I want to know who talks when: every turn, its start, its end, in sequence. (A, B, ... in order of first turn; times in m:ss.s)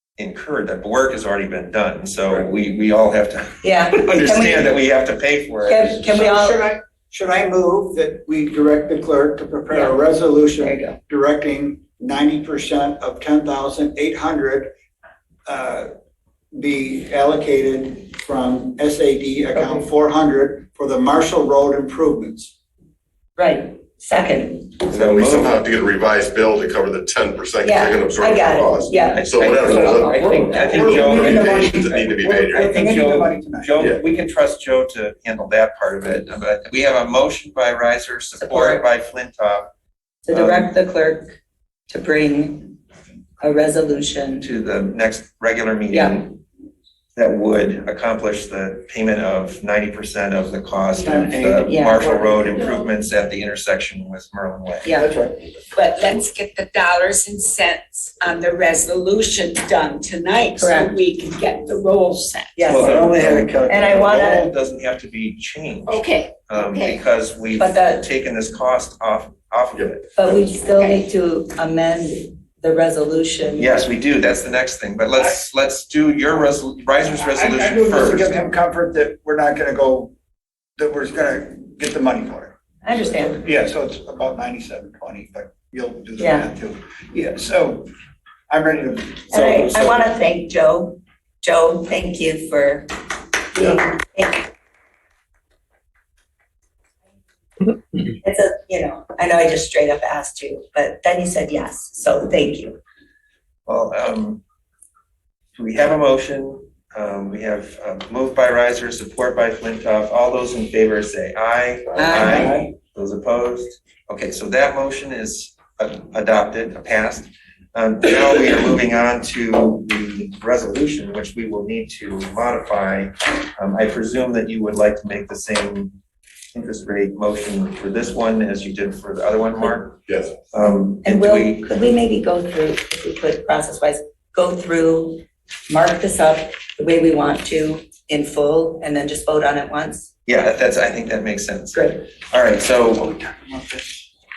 0:00.2-0:06.0 A
0:03.6-0:04.7 B
0:05.7-0:06.6 B
0:06.0-0:14.7 C
0:09.7-0:10.0 B
0:10.6-0:11.0 B
0:15.4-0:15.9 C
0:16.5-0:22.5 C
0:19.5-0:19.9 B
0:23.4-0:24.8 B
0:24.8-0:32.7 D
0:24.9-0:25.6 A
0:27.6-0:30.9 B
0:29.1-0:32.0 A
0:30.0-0:33.7 C
0:32.5-0:39.7 A
0:38.4-0:38.8 B
0:40.2-0:41.4 B
0:40.3-0:40.7 A
0:41.9-0:42.8 B
0:43.4-0:44.5 B
0:44.4-0:46.4 A
0:45.9-0:46.2 B
0:47.2-0:55.0 A
0:51.0-0:52.8 C
0:51.6-0:52.0 B
0:55.0-0:55.3 C
0:55.7-1:02.6 E
1:00.6-1:01.0 B
1:02.6-1:03.1 B
1:02.7-1:04.4 C
1:02.7-1:10.2 A
1:03.6-1:04.5 B
1:05.8-1:07.0 E
1:07.6-1:08.1 B
1:10.1-1:13.8 B
1:10.7-1:11.0 E
1:13.6-1:18.4 A
1:17.2-1:20.1 C
1:20.8-1:27.9 C
1:22.8-1:23.4 B
1:26.2-1:26.5 B
1:28.5-1:29.9 C
1:29.3-1:32.9 B
1:33.5-1:34.4 B
1:38.1-1:42.8 B
1:43.7-1:44.4 A
1:45.6-2:05.9 A
1:52.0-1:52.7 B
2:06.5-2:11.7 A
2:10.1-2:10.4 D
2:10.6-2:20.1 B
2:20.2-2:23.8 A
2:21.7-2:22.0 B